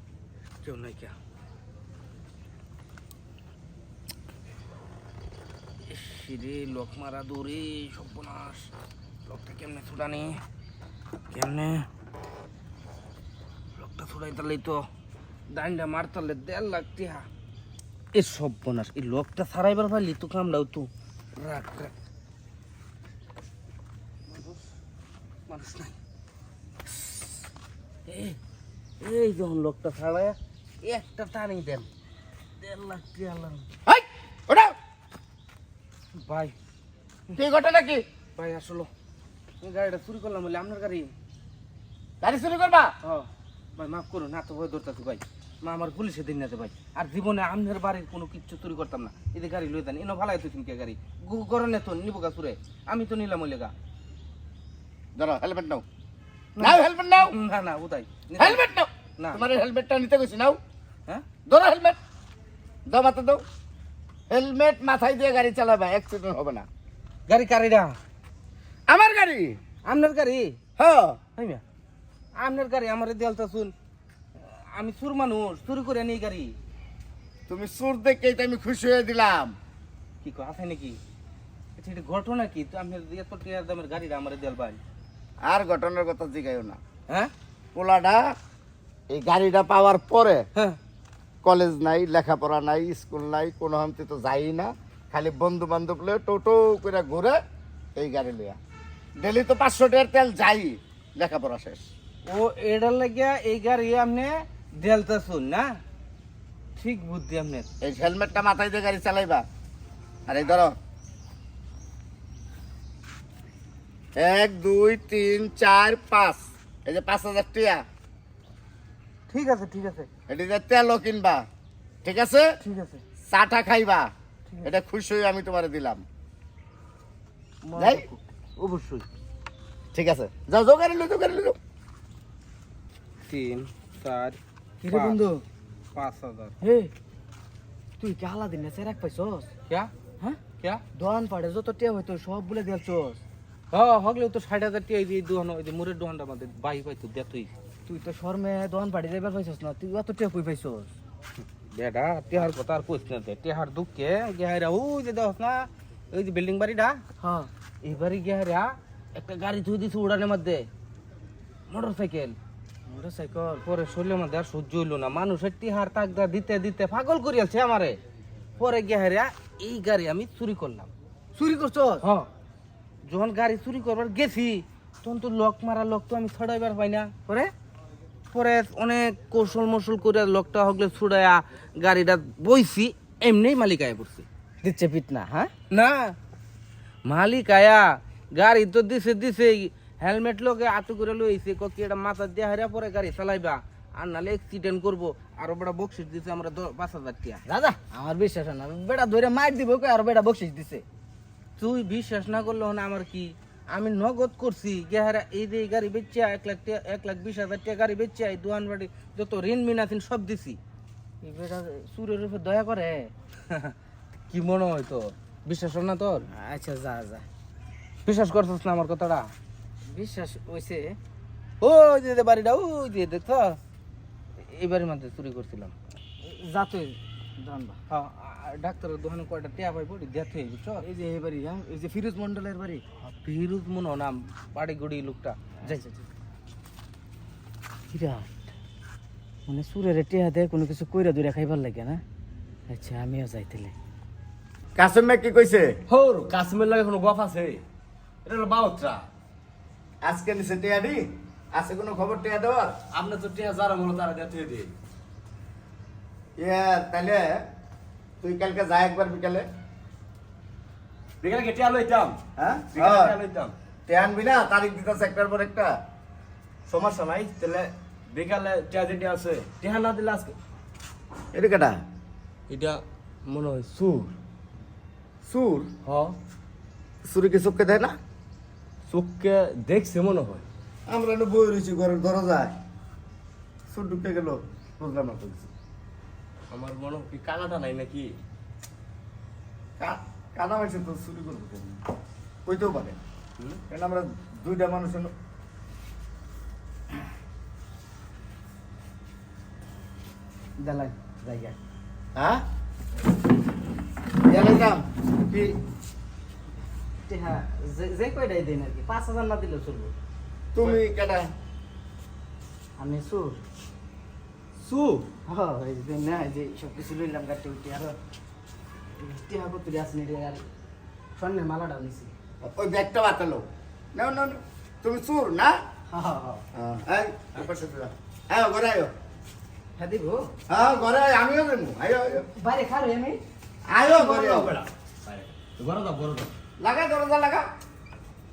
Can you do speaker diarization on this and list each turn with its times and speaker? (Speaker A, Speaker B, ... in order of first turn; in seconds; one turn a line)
Speaker A: 0.6-1.1
Speaker A: 5.8-8.7
Speaker A: 9.2-10.4
Speaker A: 11.3-11.9
Speaker A: 13.7-14.9
Speaker A: 15.5-17.3
Speaker A: 18.1-21.9
Speaker A: 24.3-24.6
Speaker A: 25.5-26.0
Speaker A: 28.1-28.4
Speaker A: 29.0-31.9
Speaker A: 32.6-33.7
Speaker B: 33.9-34.7
Speaker A: 36.1-36.5
Speaker B: 37.3-38.0
Speaker A: 38.4-38.9
Speaker A: 39.6-41.1
Speaker B: 42.2-42.9
Speaker A: 43.0-53.7
Speaker B: 55.1-55.8
Speaker A: 56.6-58.6
Speaker B: 56.6-57.4
Speaker B: 58.4-60.6
Speaker A: 59.2-59.4
Speaker B: 61.5-62.0
Speaker B: 62.9-63.4
Speaker B: 64.3-66.7
Speaker A: 67.3-68.0
Speaker B: 68.9-69.6
Speaker A: 69.8-70.6
Speaker B: 70.8-71.2
Speaker A: 71.3-71.6
Speaker A: 72.4-73.7
Speaker A: 74.3-76.5
Speaker B: 77.5-79.5
Speaker A: 80.2-81.0
Speaker A: 81.8-84.8
Speaker B: 85.4-86.8
Speaker B: 87.7-88.3
Speaker B: 89.1-90.5
Speaker B: 91.4-97.4
Speaker B: 98.0-98.6
Speaker B: 99.2-101.9
Speaker A: 102.2-105.8
Speaker A: 106.8-107.7
Speaker B: 107.8-109.4
Speaker B: 110.3-110.8
Speaker B: 114.2-117.8
Speaker A: 119.3-120.1
Speaker B: 120.3-121.4
Speaker B: 122.0-122.5
Speaker A: 122.6-123.0
Speaker B: 123.3-124.1
Speaker B: 124.6-126.0
Speaker C: 127.7-129.0
Speaker B: 127.8-128.1
Speaker A: 128.7-129.0
Speaker B: 129.9-131.6
Speaker A: 133.2-135.2
Speaker C: 134.8-135.4
Speaker A: 135.9-136.5
Speaker C: 136.6-136.9
Speaker C: 138.0-139.5
Speaker A: 140.6-140.8
Speaker C: 140.9-143.2
Speaker A: 143.7-147.5
Speaker C: 147.9-150.9
Speaker A: 151.7-157.0
Speaker C: 157.2-157.5
Speaker A: 157.8-160.7
Speaker A: 161.7-162.4
Speaker C: 162.9-163.6
Speaker A: 163.6-168.0
Speaker A: 168.6-170.9
Speaker C: 171.3-172.0
Speaker A: 172.0-172.3
Speaker A: 173.0-177.1
Speaker C: 177.3-177.5
Speaker A: 178.3-184.3
Speaker C: 184.6-185.5
Speaker A: 185.7-186.2
Speaker A: 187.0-197.4
Speaker C: 197.5-200.8
Speaker A: 201.6-210.6
Speaker C: 211.2-213.1
Speaker A: 213.5-213.8
Speaker A: 214.3-216.3
Speaker C: 216.3-217.2
Speaker A: 218.0-219.3
Speaker C: 219.9-221.0
Speaker A: 221.6-223.6
Speaker A: 224.4-225.7
Speaker C: 226.2-227.8
Speaker A: 227.9-230.8
Speaker C: 230.8-232.8
Speaker A: 233.2-235.9
Speaker C: 237.9-238.4
Speaker C: 239.5-242.0
Speaker C: 242.7-243.7
Speaker B: 244.7-245.8
Speaker D: 245.9-247.6
Speaker D: 248.2-249.0
Speaker B: 250.0-252.8
Speaker D: 252.9-254.7
Speaker B: 256.4-257.4
Speaker B: 258.2-259.4
Speaker D: 261.2-262.2
Speaker B: 262.4-263.2
Speaker D: 262.7-263.5
Speaker B: 263.9-265.8
Speaker D: 266.7-270.4
Speaker B: 271.3-271.8
Speaker D: 272.5-274.1
Speaker B: 275.2-275.7
Speaker D: 275.8-276.1
Speaker B: 277.0-278.0
Speaker D: 278.9-280.4
Speaker B: 280.9-282.6
Speaker B: 283.7-285.5
Speaker D: 286.5-288.2
Speaker B: 289.8-291.8
Speaker B: 292.4-293.0
Speaker B: 293.7-295.1
Speaker C: 300.6-301.6
Speaker B: 302.1-302.4
Speaker B: 304.2-305.6
Speaker C: 307.1-309.9
Speaker B: 310.5-311.3
Speaker C: 312.8-313.4
Speaker C: 315.1-318.0
Speaker C: 319.0-320.4
Speaker C: 321.1-322.1
Speaker B: 322.4-325.6
Speaker C: 325.9-326.4
Speaker B: 326.5-328.9
Speaker C: 329.8-330.3
Speaker B: 330.5-332.3
Speaker C: 332.3-333.2
Speaker B: 333.7-334.6
Speaker C: 333.9-334.3
Speaker D: 334.2-336.3
Speaker B: 336.6-337.5